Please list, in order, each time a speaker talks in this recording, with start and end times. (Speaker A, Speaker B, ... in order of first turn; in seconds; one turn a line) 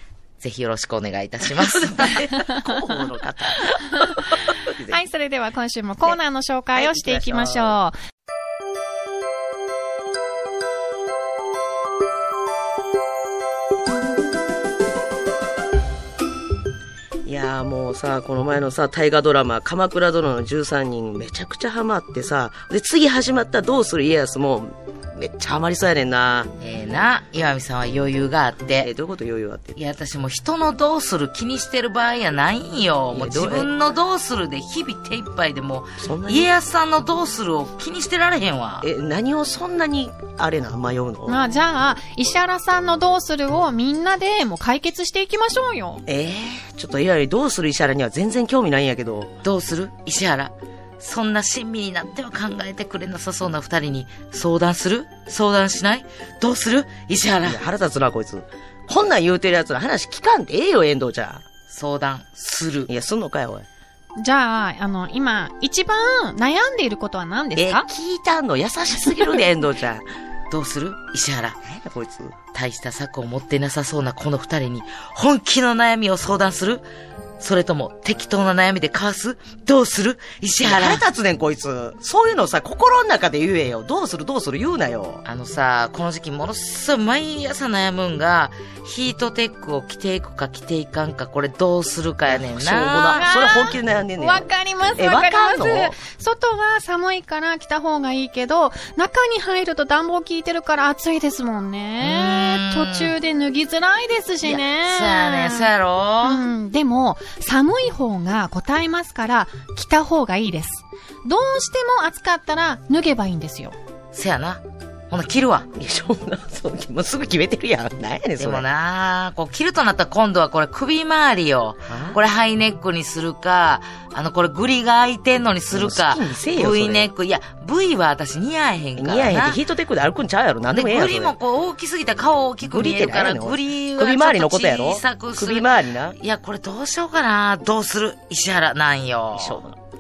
Speaker A: 0.4-2.2
Speaker B: 1.5-5.0
Speaker C: 4.9-8.0
Speaker B: 6.8-7.8
Speaker B: 17.2-26.5
Speaker A: 26.6-28.9
Speaker B: 28.8-29.8
Speaker A: 29.8-38.9
Speaker B: 33.1-33.7
Speaker B: 36.0-36.5
Speaker B: 38.8-41.4
Speaker C: 41.3-46.0
Speaker B: 46.1-49.3
Speaker A: 49.4-57.6
Speaker B: 57.4-61.4
Speaker A: 61.7-62.9
Speaker B: 62.9-63.7
Speaker C: 64.2-67.9
Speaker B: 67.5-70.0
Speaker A: 70.5-71.7
Speaker B: 71.7-72.4
Speaker A: 72.5-76.8
Speaker A: 77.4-81.0
Speaker B: 80.6-85.2
Speaker A: 85.2-93.4
Speaker B: 92.3-96.0
Speaker C: 93.2-105.7
Speaker A: 102.0-103.2
Speaker A: 104.4-106.5
Speaker C: 106.2-113.8
Speaker A: 114.1-115.7
Speaker B: 115.8-118.7
Speaker A: 118.4-129.6
Speaker B: 121.9-122.2
Speaker B: 125.7-127.1
Speaker B: 129.0-131.3
Speaker A: 130.7-139.6
Speaker B: 132.7-136.2
Speaker B: 139.3-139.8